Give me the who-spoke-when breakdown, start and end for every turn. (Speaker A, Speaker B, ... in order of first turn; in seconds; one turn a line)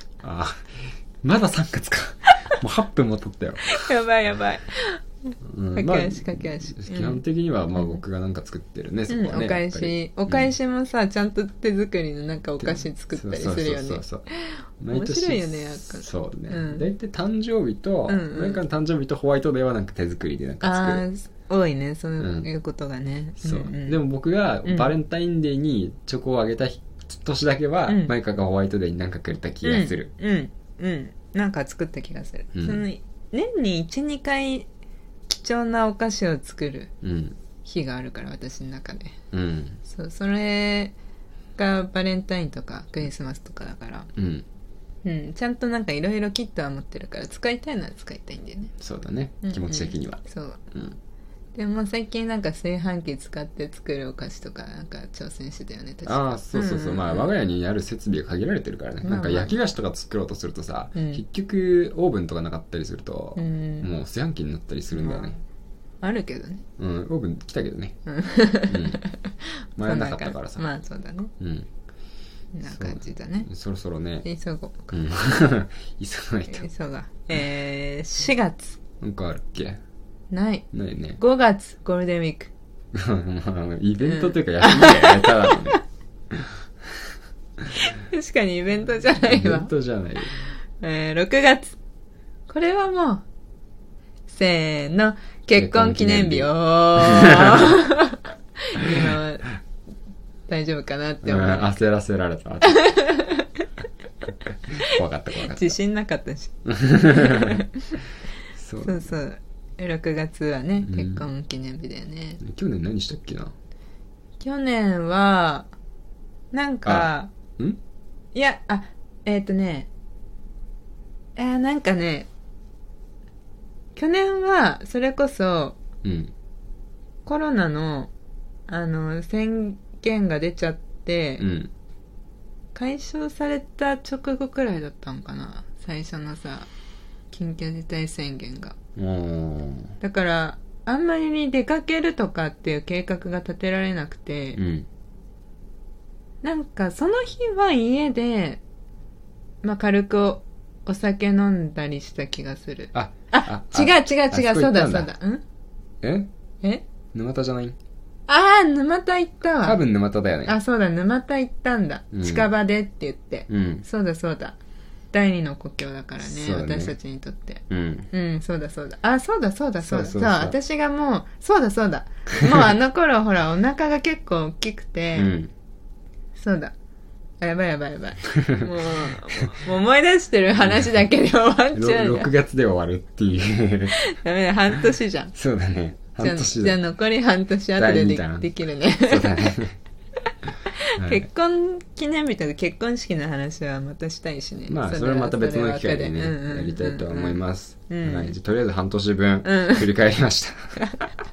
Speaker A: 0.2-3.8
Speaker B: 3.6-7.2
Speaker A: 5.4-10.5
Speaker B: 7.7-8.0
Speaker B: 9.1-16.9
Speaker A: 12.6-14.2
Speaker A: 14.8-21.1
Speaker B: 18.1-18.6
Speaker B: 20.6-24.0
Speaker A: 22.2-22.5
Speaker A: 23.4-30.1
Speaker B: 24.6-24.9
Speaker B: 27.9-28.1
Speaker B: 29.6-34.7
Speaker A: 32.5-32.8
Speaker B: 35.3-36.9
Speaker A: 37.0-37.4
Speaker B: 37.6-39.1
Speaker A: 39.3-39.8
Speaker B: 39.8-40.9
Speaker B: 41.5-44.1
Speaker A: 44.1-44.4
Speaker B: 45.0-48.7
Speaker A: 48.8-50.9
Speaker B: 49.4-50.7
Speaker B: 51.5-57.3
Speaker A: 56.0-65.3
Speaker B: 59.0-59.6
Speaker B: 60.9-61.2
Speaker B: 63.4-63.9
Speaker B: 64.9-65.4
Speaker B: 66.0-66.6
Speaker A: 66.8-68.0
Speaker B: 68.0-71.3
Speaker A: 68.7-69.0
Speaker A: 69.8-70.6
Speaker A: 71.4-71.7
Speaker B: 72.5-73.5
Speaker A: 72.6-74.2
Speaker B: 74.2-74.9
Speaker A: 74.9-76.7
Speaker B: 76.5-78.8
Speaker A: 79.0-79.8
Speaker B: 80.3-80.7
Speaker A: 80.7-81.2
Speaker B: 81.2-82.5
Speaker A: 82.9-86.5
Speaker B: 84.0-85.8
Speaker B: 87.7-89.7
Speaker A: 89.2-90.5
Speaker B: 90.8-91.8
Speaker B: 92.5-93.2
Speaker B: 94.3-99.5
Speaker A: 95.5-97.7
Speaker B: 100.5-101.7
Speaker A: 101.2-103.0
Speaker B: 102.6-103.7
Speaker B: 104.7-107.8
Speaker A: 104.8-105.8
Speaker A: 106.7-107.5
Speaker A: 108.5-109.1
Speaker B: 108.8-112.4
Speaker A: 110.8-111.3
Speaker A: 112.4-113.5
Speaker B: 114.4-115.7
Speaker B: 116.5-117.3
Speaker A: 116.8-117.8
Speaker B: 118.3-119.9
Speaker B: 121.3-122.3
Speaker B: 124.0-125.8
Speaker A: 126.0-126.3
Speaker B: 127.2-128.1
Speaker B: 128.7-131.5
Speaker A: 131.4-131.7
Speaker B: 132.7-136.7
Speaker B: 137.3-138.7
Speaker A: 138.9-139.9
Speaker B: 140.0-144.6
Speaker A: 144.5-144.9
Speaker B: 146.4-148.6
Speaker B: 149.6-155.4
Speaker A: 152.9-155.1
Speaker A: 156.0-156.3
Speaker A: 157.1-157.8
Speaker B: 158.3-159.8
Speaker A: 159.6-160.6
Speaker B: 160.4-164.6
Speaker A: 162.1-162.5
Speaker A: 163.5-163.8
Speaker B: 165.1-175.3
Speaker A: 166.2-166.9
Speaker A: 167.7-168.1
Speaker A: 169.8-170.6
Speaker A: 175.1-175.5
Speaker B: 176.3-176.7
Speaker B: 177.4-182.3
Speaker A: 181.7-183.9
Speaker B: 183.9-185.3
Speaker A: 185.3-186.8
Speaker B: 186.2-189.6
Speaker A: 187.7-188.5
Speaker A: 189.0-189.8
Speaker B: 190.9-198.3
Speaker A: 191.0-191.3
Speaker A: 194.7-200.8
Speaker B: 199.4-199.8